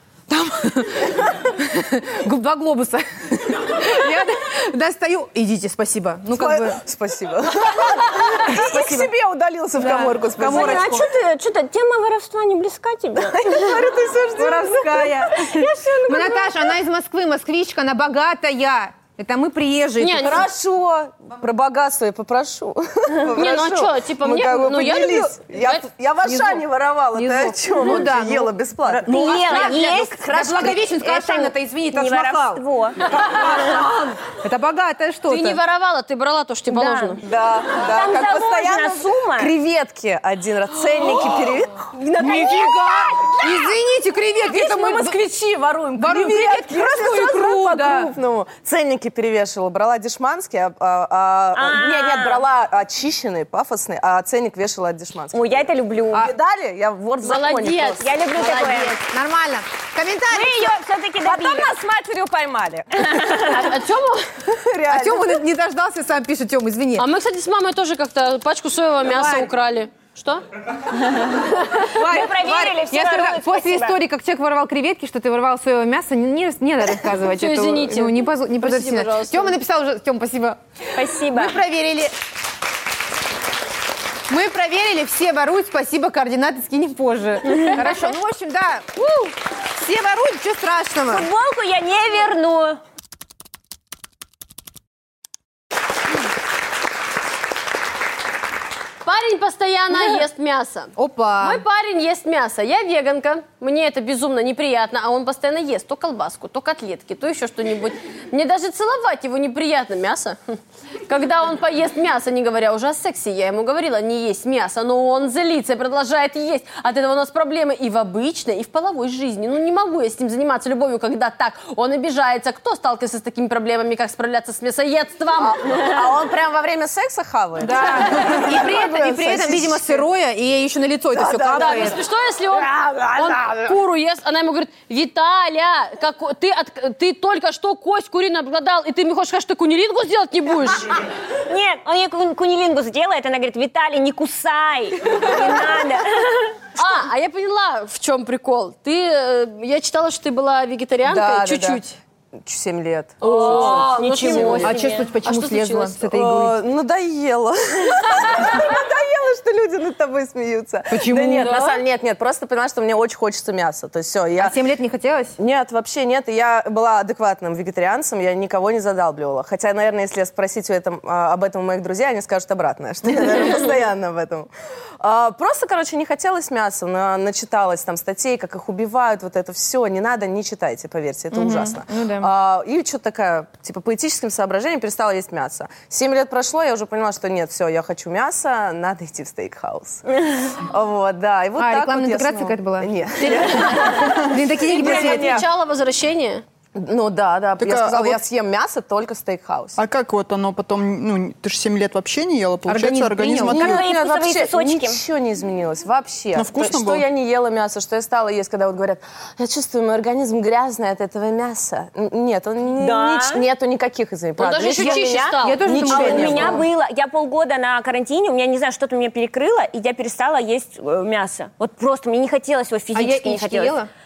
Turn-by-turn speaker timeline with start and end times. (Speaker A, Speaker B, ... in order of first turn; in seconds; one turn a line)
Speaker A: 0.3-6.8
Speaker B: 6.3-11.0
Speaker A: 8.1-9.1
Speaker A: 9.8-11.1
Speaker C: 10.4-13.9
Speaker B: 13.2-16.3
Speaker A: 14.4-20.4
Speaker C: 15.8-16.4
Speaker D: 20.0-20.5
Speaker B: 20.2-30.0
Speaker D: 23.3-25.9
Speaker A: 26.2-35.6
Speaker C: 29.1-33.2
Speaker D: 35.3-37.2
Speaker C: 36.7-37.2
Speaker B: 37.2-43.1
Speaker C: 37.8-39.5
Speaker C: 42.0-43.8
Speaker A: 42.2-42.8
Speaker A: 43.4-45.2
Speaker B: 44.5-55.5
Speaker A: 46.0-48.1
Speaker C: 51.5-52.4
Speaker C: 55.3-56.3
Speaker B: 56.1-58.1
Speaker D: 57.2-59.0
Speaker C: 58.0-59.0
Speaker A: 59.1-60.7
Speaker C: 60.3-61.9
Speaker B: 61.2-63.3
Speaker C: 62.9-63.7
Speaker D: 63.4-64.3
Speaker B: 64.5-65.4
Speaker A: 64.9-67.1
Speaker D: 67.0-70.4
Speaker A: 69.1-69.5
Speaker C: 71.0-74.0
Speaker A: 71.9-80.6
Speaker D: 77.3-79.5
Speaker C: 81.0-81.6
Speaker A: 81.3-82.1
Speaker A: 84.3-91.3
Speaker C: 91.1-92.8
Speaker D: 99.0-125.8
Speaker A: 101.0-101.6
Speaker B: 125.4-130.0
Speaker A: 127.6-132.0
Speaker B: 131.1-132.0
Speaker D: 131.5-140.9
Speaker B: 132.5-133.8
Speaker C: 141.5-146.7
Speaker D: 146.8-152.0
Speaker B: 151.0-151.8
Speaker B: 152.4-154.8
Speaker D: 153.2-156.0
Speaker C: 153.4-155.0
Speaker A: 154.6-156.6
Speaker B: 156.1-164.6
Speaker D: 158.1-158.5
Speaker A: 160.9-161.6
Speaker D: 161.5-161.8
Speaker A: 164.4-165.4
Speaker B: 165.4-195.5
Speaker A: 181.3-182.3
Speaker A: 191.6-195.4
Speaker D: 193.2-196.4
Speaker B: 196.8-199.8
Speaker E: 197.6-198.2
Speaker E: 199.8-203.9
Speaker A: 202.7-203.8
Speaker B: 203.5-216.7
Speaker C: 203.5-205.0
Speaker E: 206.3-207.1
Speaker C: 212.8-213.4
Speaker D: 214.4-216.3
Speaker A: 214.8-216.7
Speaker C: 215.8-223.8
Speaker A: 222.9-223.9